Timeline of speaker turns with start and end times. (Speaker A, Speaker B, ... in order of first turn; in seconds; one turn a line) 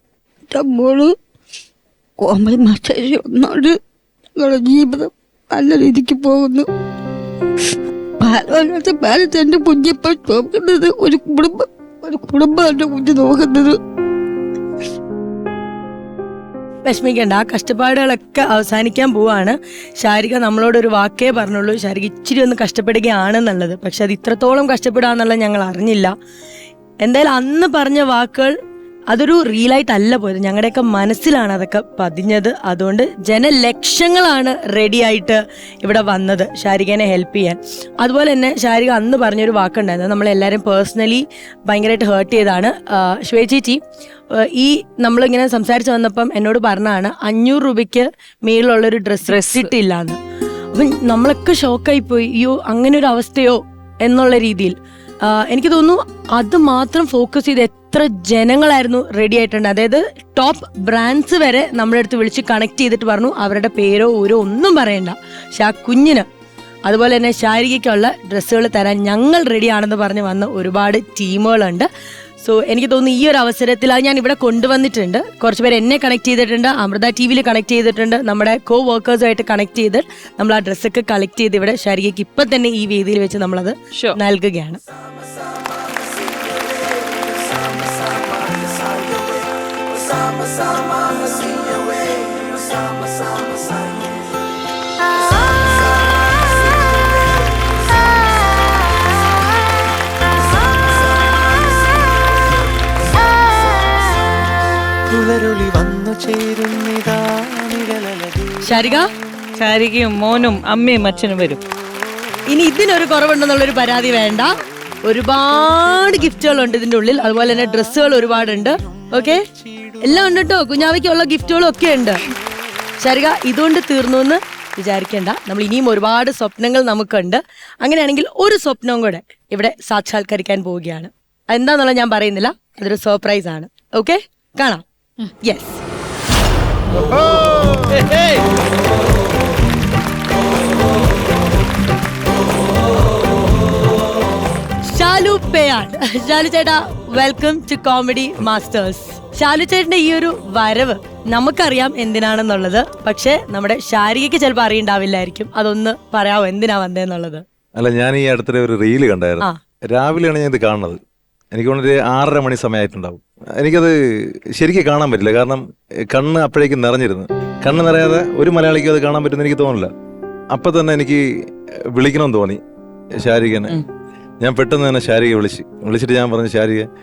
Speaker A: 0.5-1.1
Speaker A: 2.2-3.8
Speaker A: 4.3-6.7
Speaker A: 8.2-13.8
Speaker B: 16.9-26.1
Speaker B: 27.0-28.5
Speaker B: 29.1-43.8
Speaker B: 44.5-50.2
Speaker C: 49.2-49.7
Speaker B: 50.7-54.8
Speaker B: 55.3-66.2
Speaker B: 66.9-71.9
Speaker B: 72.4-84.8
Speaker D: 105.1-108.2
Speaker B: 108.7-109.1
Speaker C: 109.6-111.6
Speaker B: 112.5-114.5
Speaker B: 115.0-119.4
Speaker B: 120.0-122.2
Speaker B: 123.0-134.8
Speaker B: 135.4-135.8
Speaker B: 144.9-157.4
Speaker E: 157.8-161.0
Speaker E: 161.5-163.9
Speaker E: 164.6-169.9
Speaker E: 170.5-171.2
Speaker E: 171.9-172.6
Speaker E: 173.2-173.8
Speaker E: 174.4-176.9